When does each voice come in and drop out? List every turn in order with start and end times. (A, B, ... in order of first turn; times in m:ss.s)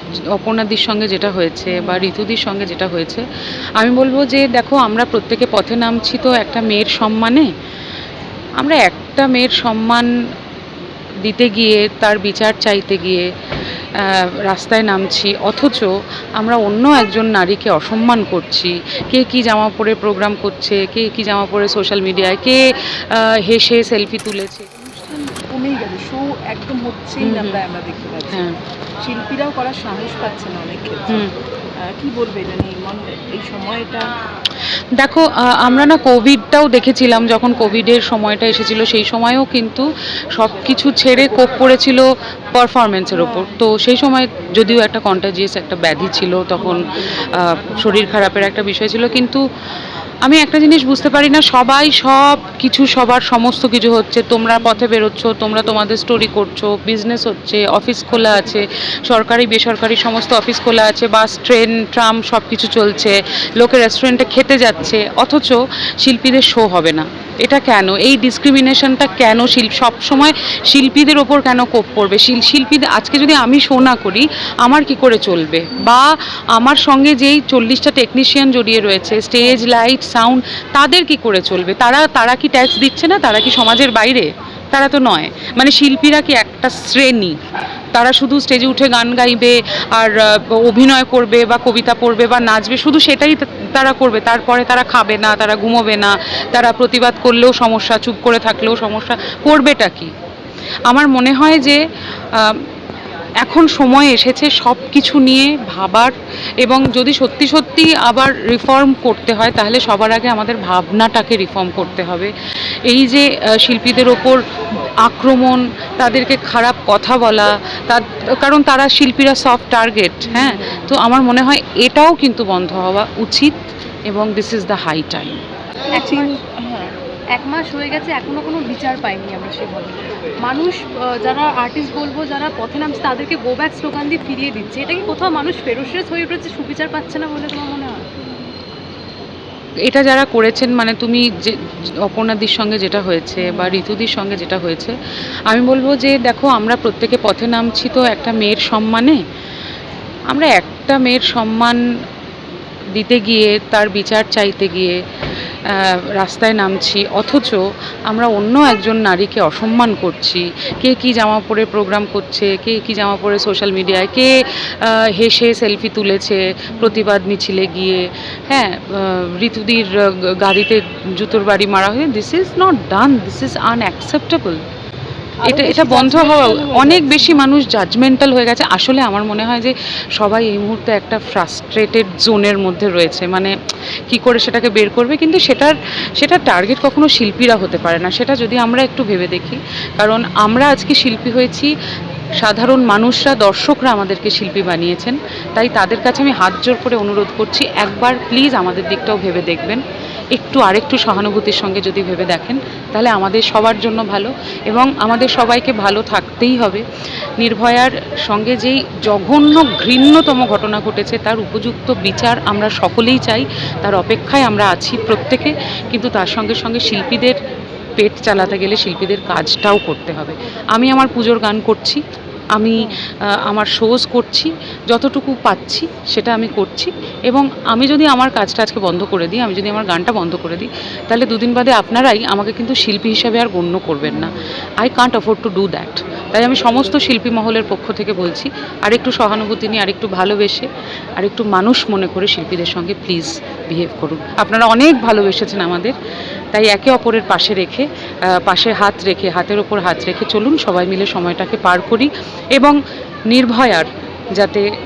0:00.3-0:03.2 A
0:03.8-0:07.5 A
0:08.6-0:10.1 A
0:11.2-0:13.3 A
0:14.0-0:24.7 A
0:24.8-0:28.4 B
0:27.2-0:27.6 A
0:29.0-0:31.3 B
0:31.8-0:34.1 B
0:35.0-0:49.4 A
0:43.1-0:43.5 B
0:50.2-1:27.4 A
1:27.9-1:40.1 A
1:40.9-1:41.8 A
1:42.3-1:42.6 A
1:43.4-1:52.3 A
1:52.8-1:54.4 A
1:55.0-2:05.4 A
2:00.2-2:00.9 B
2:05.9-2:06.4 C
2:05.9-2:06.9 B
2:07.4-2:18.0 C
2:19.8-2:24.9 A
2:25.5-2:29.2 A
2:30.3-2:31.8 A
2:32.9-2:35.0 A
2:35.6-2:54.6 A
2:46.7-2:47.1 B
2:55.4-2:57.4 B
2:55.4-3:03.5 A
3:04.1-3:11.7 A
3:12.4-3:19.8 A
3:20.3-3:26.8 A
3:27.4-3:37.4 A
3:38.0-3:42.0 A
3:42.6-4:06.0 A
4:06.5-4:12.8 A
4:13.3-4:14.7 A